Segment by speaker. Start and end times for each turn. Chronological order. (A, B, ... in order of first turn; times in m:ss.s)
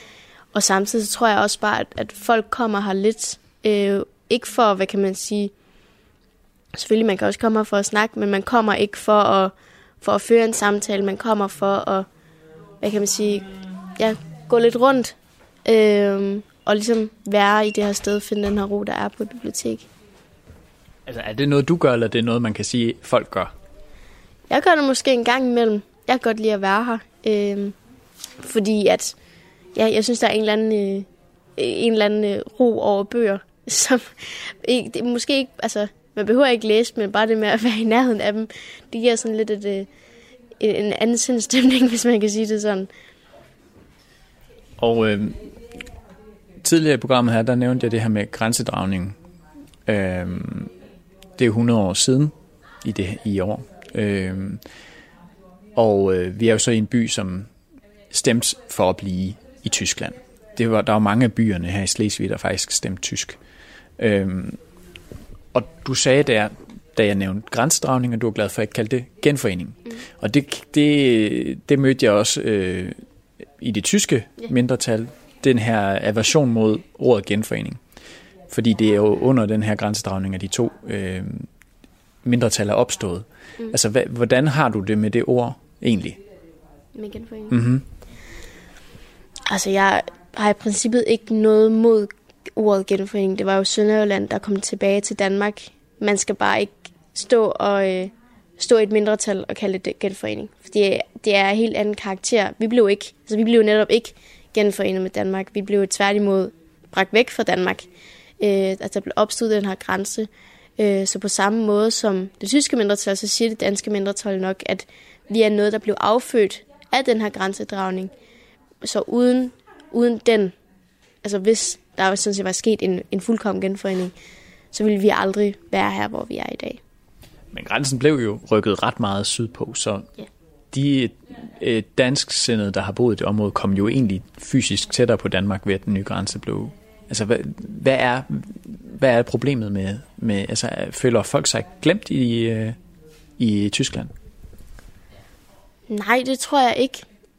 0:00.5-0:05.5 A
0:06.7-0:12.1 A
0:12.8-0:19.9 A
0:21.1-0:23.5 B
0:24.5-0:27.8 A
0:28.4-0:29.2 A
0:29.8-0:39.9 A
0:40.6-0:42.9 A
0:44.8-0:45.4 B
0:46.6-0:49.2 B
0:49.9-0:50.7 B
0:51.4-0:54.6 B
0:55.8-0:57.5 B
0:58.1-1:03.4 B
1:04.0-1:04.6 B
1:05.5-1:13.0 B
1:13.6-1:17.8 B
1:18.5-1:21.5 B
1:22.2-1:26.2 B
1:27.0-1:27.6 A
1:27.5-1:27.8 B
1:29.5-1:47.9 A
1:48.4-1:58.1 A
1:58.8-2:00.6 A
2:01.2-2:04.1 A
2:04.7-2:06.8 A
2:07.5-2:10.1 B
2:10.7-2:22.8 B
2:23.4-2:24.1 B
2:25.9-2:27.0 A